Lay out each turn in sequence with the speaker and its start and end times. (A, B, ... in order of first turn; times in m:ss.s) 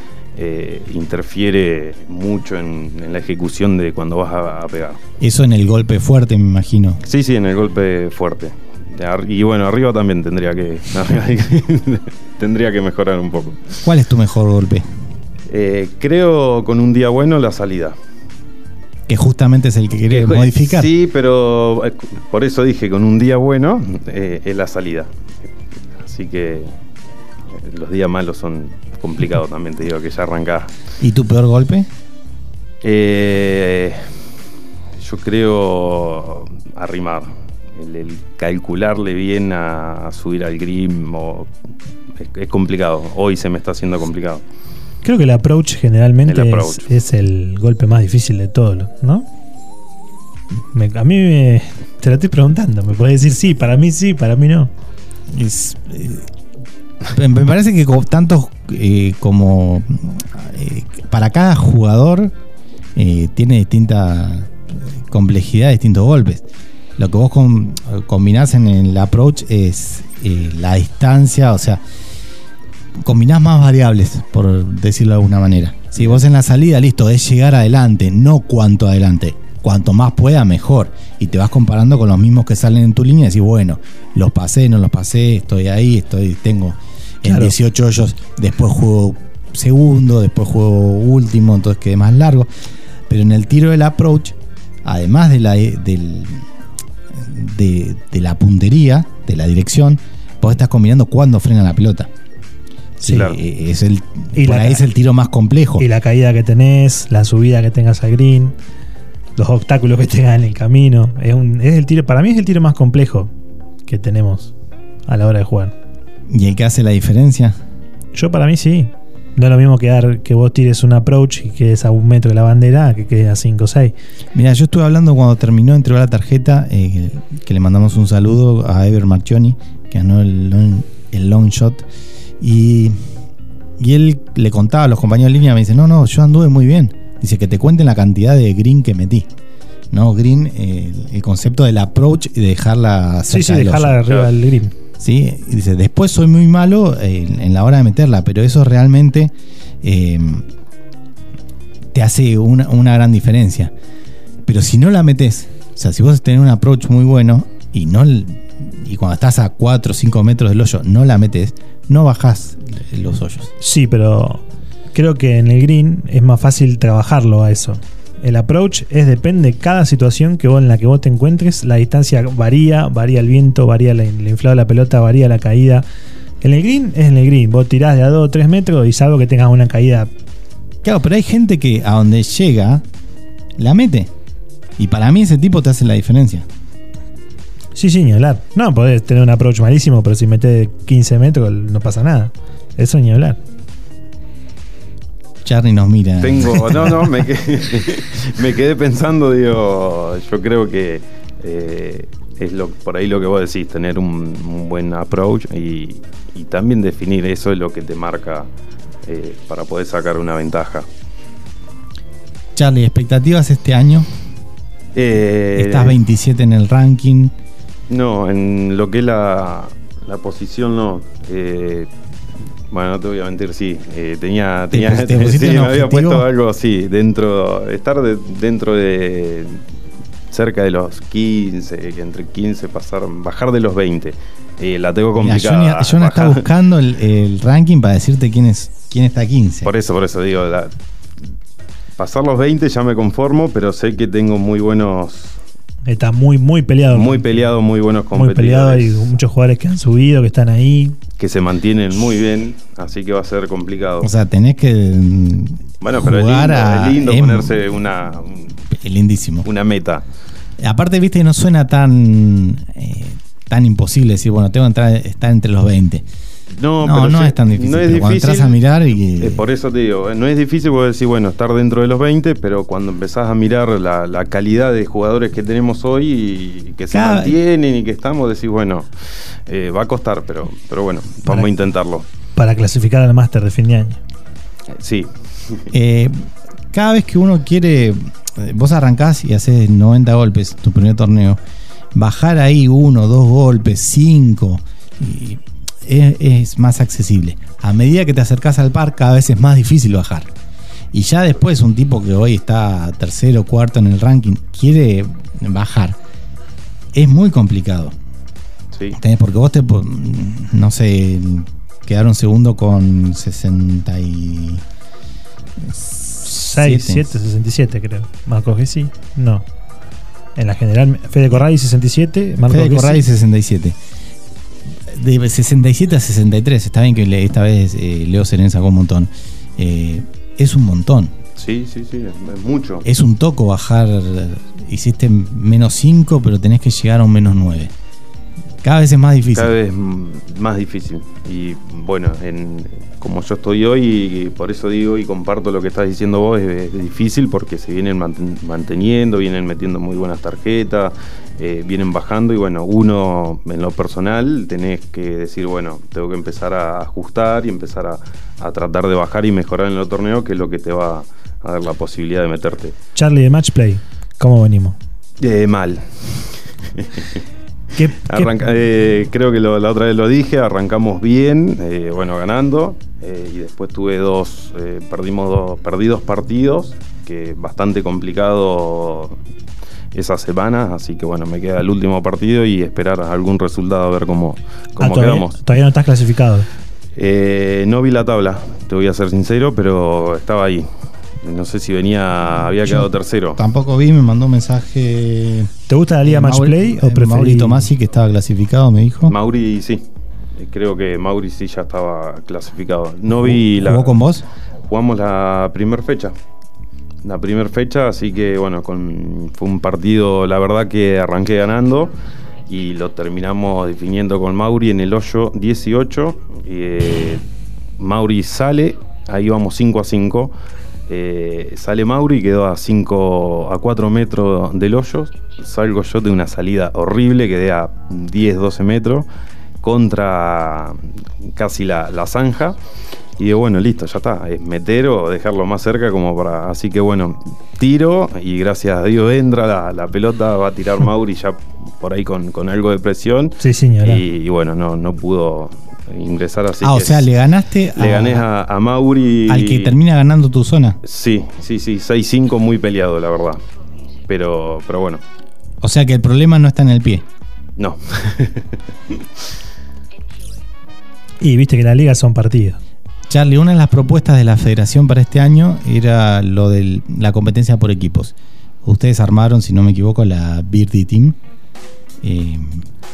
0:00.4-0:05.0 A
0:05.2-0:07.0 B
0:07.0-0:13.8 A
0:13.8-0:14.9 B
0:15.5-0:18.0 A
0:19.1-0:20.9 B
0:20.1-0:25.1 A
0:26.0-0:26.7 A
0:27.5-0:30.7 A
0:31.0-0:31.9 B
0:32.8-0:34.1 A
0:35.0-0:41.5 A
0:42.2-0:44.4 A
0:45.0-0:49.2 C
0:46.2-0:46.9 A
0:50.7-0:54.7 C
0:55.3-0:56.3 B
0:57.1-1:02.3 B
1:03.0-1:04.5 B
1:05.1-1:06.4 B
1:07.0-1:11.8 B
1:13.0-1:32.5 B
1:27.2-1:27.5 C
1:33.1-1:36.4 B
1:37.1-1:42.1 B
1:43.0-1:45.8 B
1:43.1-1:43.4 A
1:44.3-1:44.8 C
1:45.8-1:48.5 C
1:49.4-1:53.3 C
1:53.8-1:54.5 C
1:55.1-1:55.7 C
1:56.3-1:57.6 B
1:58.1-2:03.9 C
2:04.3-2:11.8 B
2:12.4-2:13.0 B
2:13.8-2:19.3 B
2:19.9-2:24.0 B
2:23.3-2:24.7 C
2:25.0-2:30.4 B
2:31.9-2:33.7 B
2:34.4-2:43.5 B
2:43.6-2:44.4 C
2:44.9-2:55.8 C
2:56.4-3:00.1 C
3:00.8-3:02.8 B
3:03.6-3:04.1 B
3:04.8-3:06.5 B
3:07.8-3:13.4 C
3:15.4-3:17.1 B
3:16.2-3:28.5 A
3:29.0-3:30.9 A
3:32.6-3:34.1 B
3:34.9-3:36.0 A
3:35.5-3:37.3 B
3:37.9-3:41.9 A
3:42.7-3:49.6 A
3:44.7-3:46.3 B
3:50.3-3:56.4 A
3:55.2-3:59.7 B
3:59.6-4:00.7 A
4:02.0-4:05.4 A
4:05.8-4:07.4 C
4:06.9-4:09.1 A
4:08.1-4:11.0 C
4:11.2-4:14.1 A
4:14.0-4:17.6 B
4:15.8-4:18.6 A
4:18.7-4:19.4 B
4:19.4-4:20.0 A
4:20.6-4:26.0 B
4:26.5-4:28.6 A
4:26.8-4:29.4 B
4:29.1-4:38.9 A
4:36.9-4:37.4 B
4:39.5-4:42.0 A
4:42.4-4:44.0 C
4:44.7-4:45.7 A
4:45.7-4:51.4 B
4:51.9-5:00.3 B
5:00.9-5:06.0 B
5:06.9-5:07.9 B
5:09.0-5:14.6 B
5:15.6-5:17.1 B
5:16.4-5:19.4 C
5:20.4-5:23.0 C
5:22.5-5:23.8 B
5:24.9-5:31.1 B
5:31.4-5:32.8 A
5:32.8-5:37.7 B
5:38.6-5:39.5 B
5:39.3-6:02.7 A
6:03.0-6:04.8 C
6:05.2-6:07.2 A
6:07.8-6:08.4 C
6:08.0-6:19.2 A
6:19.9-6:25.4 A
6:24.8-6:26.5 C
6:27.0-6:30.7 A
6:31.2-6:33.4 A
6:32.6-6:35.5 B
6:35.7-6:37.7 C
6:36.0-6:39.1 B
6:39.1-6:39.8 A
6:40.4-6:44.0 A
6:43.1-6:44.2 B
6:44.7-6:46.1 A
6:47.0-6:51.9 A
6:52.5-6:57.2 A
6:57.8-7:00.3 A
7:00.9-7:09.1 A
7:09.6-7:10.8 A
7:11.3-7:12.6 A
7:13.2-7:27.1 A
7:23.4-7:24.0 C
7:26.6-7:28.2 B
7:27.8-7:29.8 A
7:29.3-7:30.8 B
7:30.8-7:33.4 A
7:34.1-7:35.0 A
7:35.6-7:37.0 B
7:37.6-7:39.0 A
7:41.2-7:42.6 C
7:43.1-7:48.1 B
7:48.6-7:51.2 B
7:52.0-7:52.6 B